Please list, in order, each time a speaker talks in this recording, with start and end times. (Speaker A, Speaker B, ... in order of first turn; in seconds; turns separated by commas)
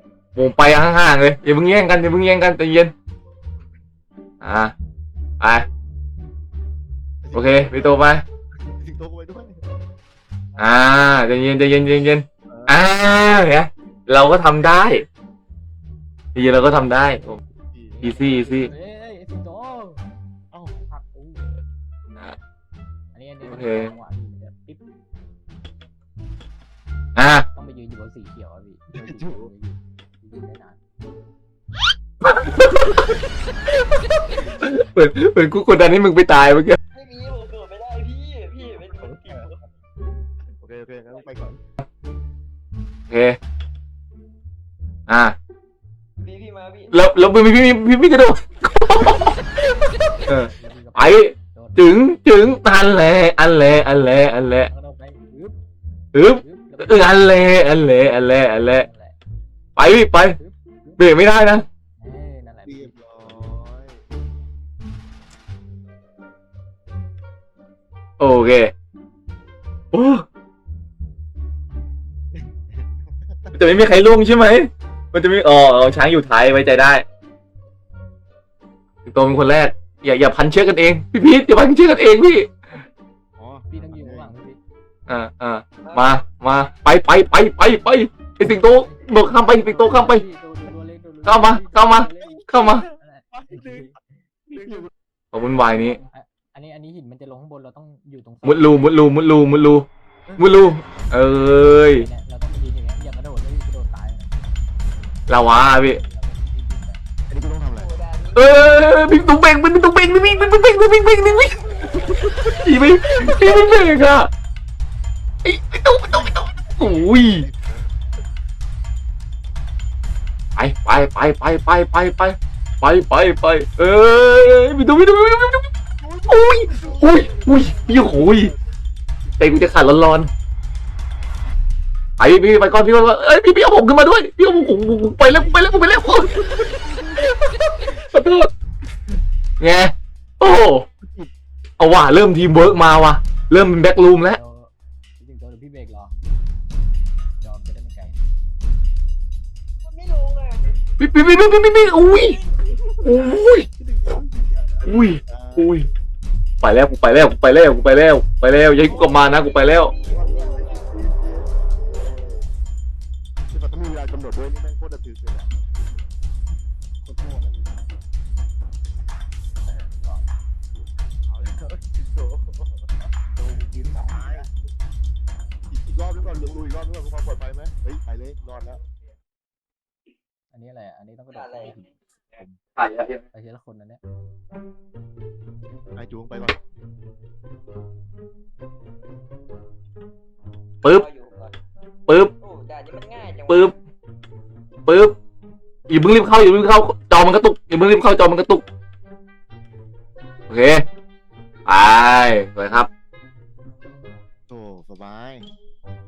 Speaker A: 0.3-2.9, Speaker A: 4.4-4.7, Speaker A: 5.4-5.7, Speaker B: 7.2-9.7, Speaker A: 7.3-8.2, Speaker A: 10.6-15.1, Speaker B: 12.5-12.8, Speaker A: 16.3-17.4, Speaker B: 17.4-18.0, Speaker C: 18.0-20.0, Speaker A: 18.0-18.7, Speaker C: 20.8-21.5, Speaker C: 23.1-24.8, Speaker A: 23.4-23.9, Speaker A: 27.2-27.4, Speaker C: 27.5-30.8, Speaker B: 28.9-29.5, Speaker A: 32.2-33.0, Speaker A: 34.6-36.8, Speaker D: 36.9-39.7, Speaker B: 39.0-39.5, Speaker B: 40.5-41.6, Speaker A: 43.1-43.4, Speaker A: 45.1-45.3, Speaker D: 46.2-46.9, Speaker A: 46.9-49.5, Speaker C: 49.5-52.3, Speaker A: 50.3-54.7, Speaker C: 54.7-55.5, Speaker A: 56.1-58.9, Speaker C: 56.2-57.7, Speaker C: 58.4-59.2, Speaker A: 59.8-60.4, Speaker C: 60.2-61.1, Speaker A: 61.0-61.6, Speaker C: 62.0-63.5, Speaker B: 62.7-64.0, Speaker A: 68.2-68.7, Speaker A: 69.9-70.2, Speaker B: 72.3-73.8, Speaker A: 73.5-77.0, Speaker A: 79.0-82.5, Speaker B: 83.4-84.3, Speaker C: 83.7-84.6, Speaker A: 85.1-90.2, Speaker D: 85.8-86.2, Speaker C: 88.4-94.0, Speaker A: 91.2-92.8, Speaker B: 92.2-93.9, Speaker B: 94.5-94.9, Speaker A: 95.3-96.0, Speaker C: 95.7-99.1, Speaker A: 98.4-99.8, Speaker B: 100.3-100.8, Speaker A: 100.4-102.1, Speaker C: 101.5-104.4, Speaker A: 105.3-106.0, Speaker C: 105.4-107.0, Speaker B: 107.3-108.0, Speaker D: 107.7-109.2, Speaker A: 108.3-111.6, Speaker D: 110.2-113.0, Speaker A: 112.6-114.3, Speaker A: 115.4-117.5, Speaker B: 116.1-117.8, Speaker A: 120.6-125.7, Speaker B: 126.0-128.6, Speaker A: 126.3-128.5, Speaker A: 129.4-130.3, Speaker A: 132.2-136.3, Speaker A: 137.2-138.5, Speaker A: 139.6-140.8, Speaker B: 141.0-141.3, Speaker A: 141.8-144.4, Speaker C: 144.2-146.2, Speaker C: 147.4-148.2, Speaker D: 149.8-150.8, Speaker A: 151.0-152.4, Speaker D: 151.9-153.3, Speaker A: 153.0-153.7, Speaker D: 154.1-154.9, Speaker A: 154.8-155.9, Speaker B: 155.1-155.8, Speaker A: 156.6-159.9, Speaker D: 158.8-160.9, Speaker B: 160.0-162.4, Speaker B: 163.5-165.5, Speaker C: 167.0-167.5, Speaker C: 169.7-170.3, Speaker D: 171.4-172.7, Speaker C: 173.3-174.5, Speaker B: 173.9-174.5, Speaker B: 175.7-178.8, Speaker C: 180.5-182.6, Speaker D: 181.3-181.8, Speaker A: 182.8-183.2, Speaker C: 183.3-184.0, Speaker B: 185.9-186.6, Speaker D: 190.8-191.5, Speaker A: 192.1-192.3, Speaker D: 192.4-193.7, Speaker A: 193.5-193.7, Speaker A: 194.8-195.2, Speaker A: 195.9-198.6, Speaker A: 200.5-200.8, Speaker A: 201.7-202.9, Speaker B: 204.5-205.5